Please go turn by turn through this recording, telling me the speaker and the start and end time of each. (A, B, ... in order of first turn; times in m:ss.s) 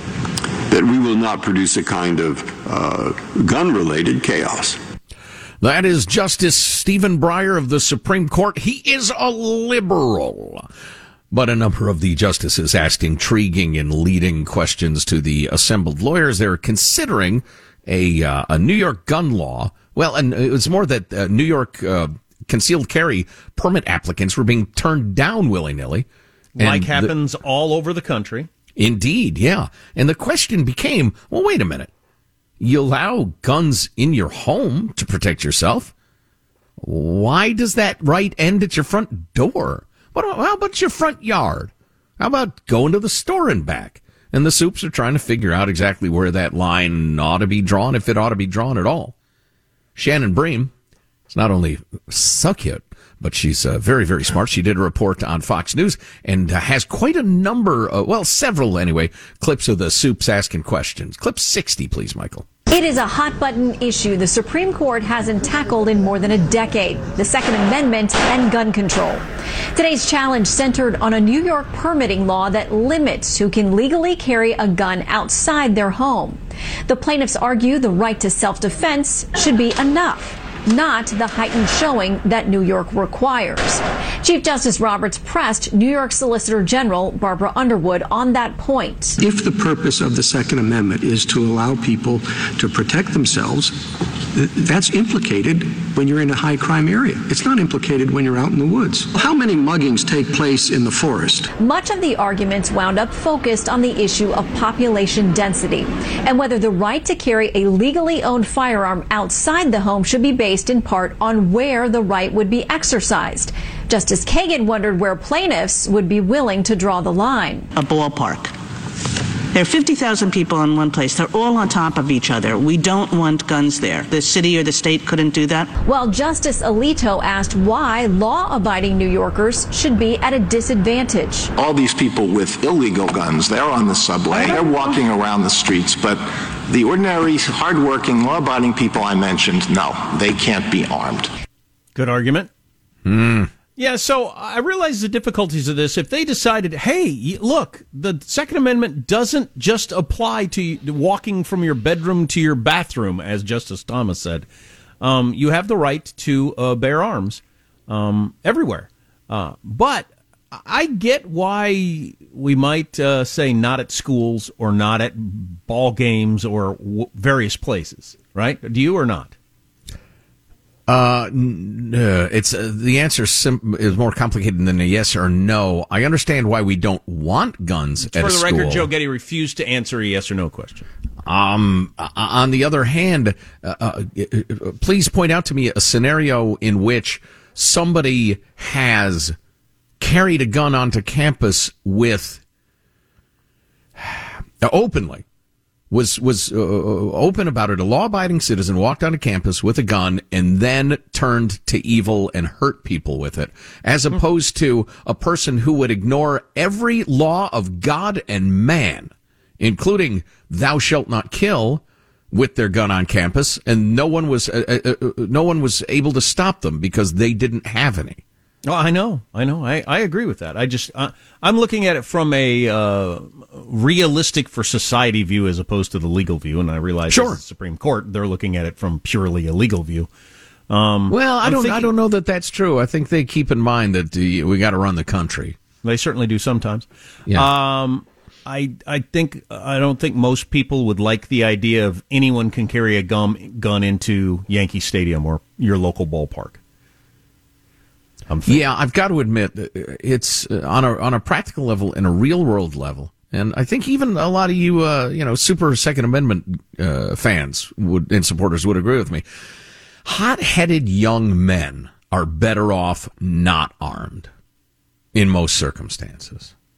0:00.7-0:04.8 A
0:05.6-0:10.7 B
0:11.3-0:26.1 B
0:26.6-0:28.5 C
0:26.6-0:27.1 B
0:28.8-0:31.9 B
0:32.6-0:35.9 B
0:36.8-0:49.1 B
0:50.0-0:50.7 B
0:51.3-1:02.4 B
1:02.7-1:09.2 D
1:09.7-1:29.2 D
1:29.2-1:41.5 E
1:41.6-1:57.7 D
1:57.7-1:58.5 F
1:59.5-2:05.7 F
2:05.8-2:11.5 D
2:11.6-2:21.3 G
2:21.9-2:22.5 C
2:23.0-2:23.5 B
2:23.8-2:34.5 C
2:35.0-2:49.3 C
2:50.9-2:58.9 B
2:58.0-3:00.9 C
3:01.2-3:09.4 B
3:10.0-3:12.4 B
3:14.0-3:15.2 B
3:15.9-3:38.2 B
3:38.6-3:50.1 C
3:47.1-3:47.4 B
3:50.7-3:51.9 C
3:51.1-3:55.6 B
3:55.8-4:06.6 C
4:08.3-4:08.6 C
4:08.4-4:19.2 B
4:20.0-4:24.3 B
4:25.1-4:26.5 B